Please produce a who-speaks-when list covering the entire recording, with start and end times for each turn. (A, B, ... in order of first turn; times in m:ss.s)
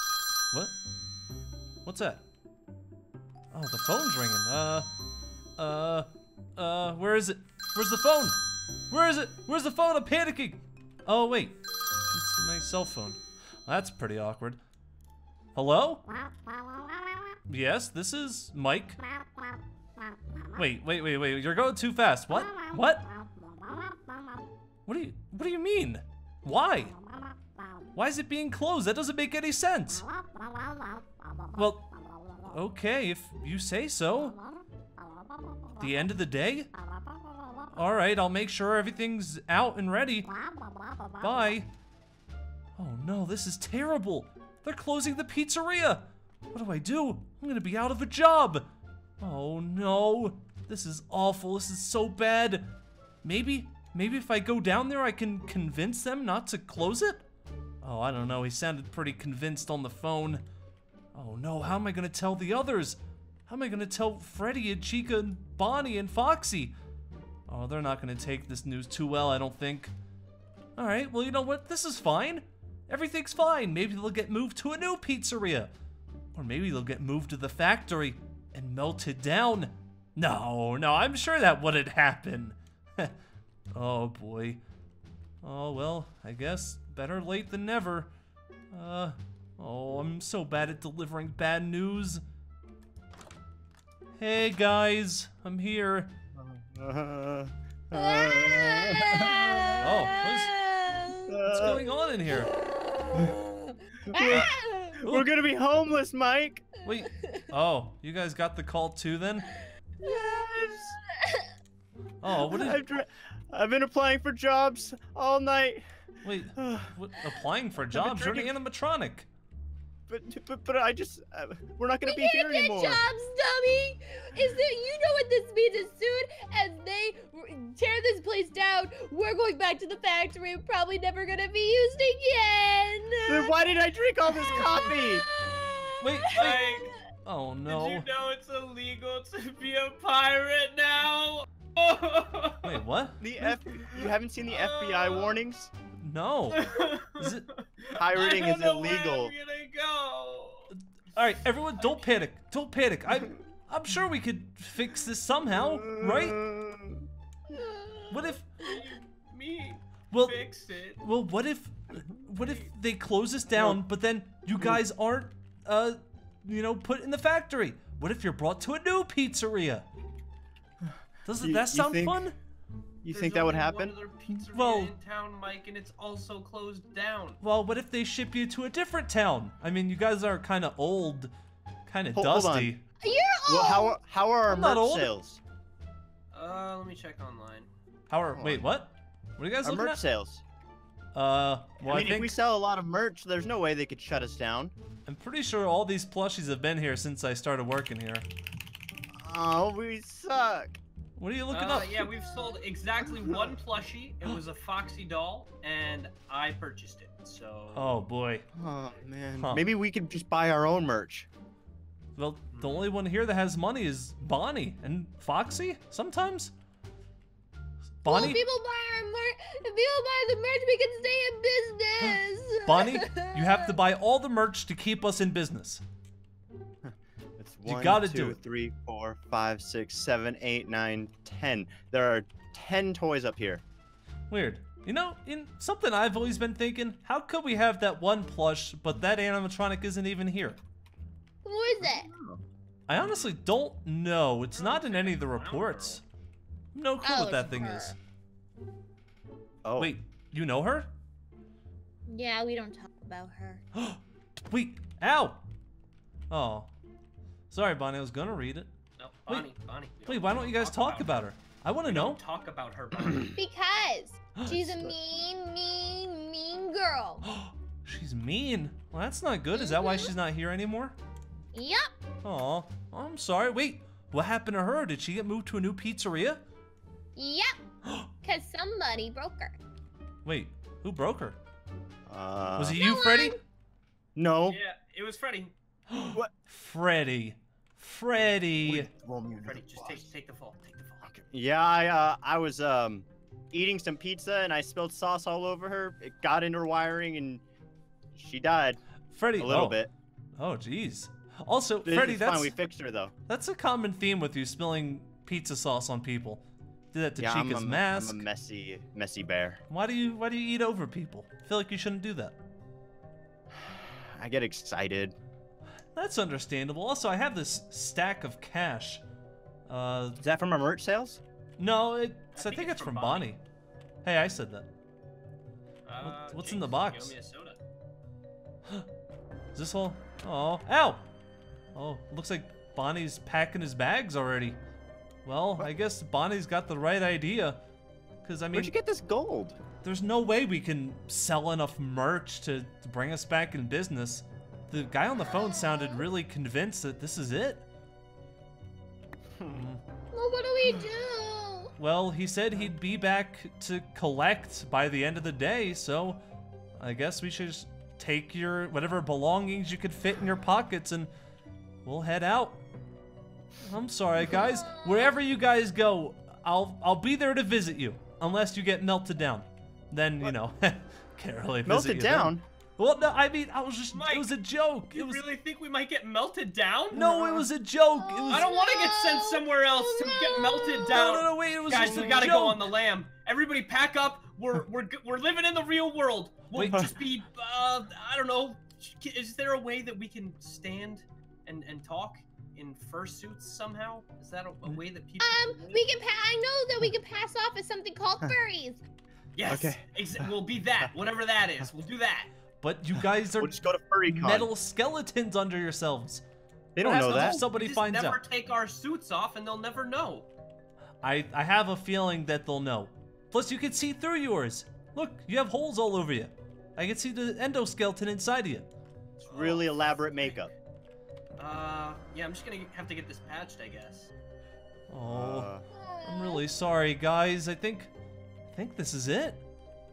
0:01.8-0:02.2 A
0:03.5-0:04.9 A
0:05.6-0:11.6 A
0:12.1-0:14.6 A
0:15.5-0:16.1 A
0:17.4-0:19.0 A
0:20.5-0:23.1 A
0:24.8-0:27.0 A
0:27.9-0:30.1 A
0:31.5-0:34.4 A
0:35.8-0:36.7 A
0:37.7-0:40.3 A
0:41.2-0:41.7 A
0:42.8-0:48.7 A
0:49.2-0:52.7 A
0:53.2-0:57.2 A
0:57.8-1:00.4 A
1:01.1-1:06.8 A
1:07.5-1:09.9 A
1:10.8-1:15.7 A
1:16.3-1:23.1 A
1:23.7-1:24.6 A
1:25.4-1:28.1 A
1:28.7-1:32.2 A
1:34.2-1:36.1 A
1:36.3-1:39.9 B
1:37.9-1:45.0 C
1:39.8-1:40.5 A
1:41.3-1:41.8 B
1:41.5-1:42.5 A
1:44.1-1:46.7 B
1:45.0-1:45.3 A
1:46.8-1:47.5 C
1:46.8-1:49.5 A
1:50.0-1:50.9 B
1:50.0-1:51.5 C
1:52.2-1:52.8 A
1:52.4-1:55.9 B
1:56.2-1:59.3 A
1:56.6-1:56.9 B
1:57.8-1:58.5 B
2:00.1-2:03.0 B
2:02.0-2:13.5 C
2:13.2-2:15.2 B
2:14.4-2:17.0 C
2:16.0-2:16.6 A
2:16.3-2:16.9 D
2:17.2-2:18.0 A
2:17.6-2:22.8 D
2:22.6-2:23.2 A
2:23.2-2:25.7 B
2:23.4-2:25.4 D
2:26.0-2:27.4 A
2:26.5-2:30.7 D
2:27.9-2:29.3 B
2:30.7-2:36.4 A
2:31.8-2:32.2 D
2:35.5-2:37.0 B
2:38.1-2:38.5 A
2:38.3-2:41.0 D
2:40.1-2:40.4 A
2:40.9-2:49.9 A
2:42.4-2:42.7 D
2:43.5-2:43.8 B
2:51.2-2:52.3 A
2:51.4-2:52.3 B
2:53.0-2:54.0 B
2:53.1-2:57.4 D
2:54.3-2:54.9 A
2:57.4-3:01.3 A
3:01.9-3:02.8 A
3:02.1-3:02.7 B
3:03.0-3:04.0 C
3:03.4-3:05.4 B
3:04.5-3:05.1 A
3:06.3-3:07.7 D
3:08.1-3:10.0 A
3:08.3-3:08.7 B
3:09.6-3:10.4 B
3:11.1-3:12.3 A
3:11.8-3:14.7 B
3:15.0-3:18.3 A
3:19.1-3:20.8 B
3:21.2-3:22.1 A
3:21.5-3:27.9 D
3:27.7-3:28.4 A
3:28.5-3:31.3 B
3:29.4-3:29.6 A
3:32.2-3:36.5 A
3:32.5-3:32.9 D
3:38.0-3:38.4 A
3:38.0-3:43.7 C
3:42.0-3:45.8 A
3:46.8-3:53.6 B
3:47.7-3:48.4 A
3:54.3-4:00.6 A
4:01.4-4:02.1 C
4:02.9-4:06.0 A
4:02.9-4:03.3 D
4:04.5-4:06.0 D
4:06.7-4:08.0 A
4:07.0-4:08.0 C
4:09.6-4:09.9 B
4:09.8-4:10.9 A
4:12.0-4:13.6 C
4:13.7-4:15.4 A
4:16.3-4:16.7 A
4:17.5-4:18.7 A
4:19.0-4:21.2 D
4:20.0-4:22.2 A
4:21.8-4:23.3 D
4:23.4-4:27.3 C
4:24.4-4:24.8 A
4:27.2-4:31.0 A
4:29.5-4:30.2 C
4:31.5-4:31.9 C
4:32.2-4:36.4 A
4:37.2-4:37.6 C
4:38.2-4:39.6 C
4:40.2-4:41.4 A
4:42.1-4:42.8 B
4:42.6-4:43.4 A
4:42.8-4:43.4 C
4:44.2-4:44.6 B
4:44.5-4:45.5 D
4:45.9-4:48.9 A
4:48.6-4:50.1 B
4:49.4-4:51.0 D
4:51.0-4:57.4 B
4:58.1-4:58.8 B
4:59.1-4:59.8 A
4:59.4-4:59.9 B
5:00.4-5:02.6 A
5:01.8-5:03.1 B
5:03.3-5:08.2 A
5:07.2-5:09.6 B
5:09.7-5:12.4 A
5:13.5-5:15.2 B
5:15.9-5:19.0 A
5:19.7-5:20.2 A
5:20.2-5:21.2 B
5:21.6-5:23.4 A
5:22.3-5:23.3 D
5:24.0-5:24.7 A
5:25.8-5:27.6 D
5:26.0-5:27.1 A
5:29.5-5:31.0 A
5:31.7-5:34.6 A
5:35.2-5:37.6 A
5:38.2-5:38.7 A
5:38.5-5:39.6 B
5:39.8-5:47.6 A
5:45.2-5:46.0 C
5:49.5-5:49.8 A
5:50.1-5:51.7 C
5:51.8-5:56.2 A
5:56.8-6:01.1 A
6:01.8-6:02.6 A
6:03.6-6:15.2 A
6:04.3-6:05.2 C
6:11.6-6:12.4 B
6:13.9-6:14.4 D
6:14.9-6:17.0 D
6:16.9-6:18.5 A
6:16.9-6:17.5 B
6:18.0-6:21.0 C
6:18.3-6:35.8 D
6:20.9-6:22.7 A
6:26.5-6:26.9 A
6:35.2-6:38.8 C
6:39.3-6:42.3 D
6:39.4-6:39.8 B
6:42.6-6:43.5 A
6:43.3-6:44.5 B
6:44.0-6:46.2 A
6:46.8-6:47.4 B
6:46.8-6:48.2 A
6:47.0-6:50.3 D
6:51.0-6:58.7 A
6:59.2-7:00.5 D
6:59.3-7:00.5 B
7:01.4-7:04.1 D
7:04.9-7:05.5 A
7:05.1-7:05.7 B
7:05.7-7:06.4 C
7:06.0-7:07.9 A
7:08.5-7:09.4 A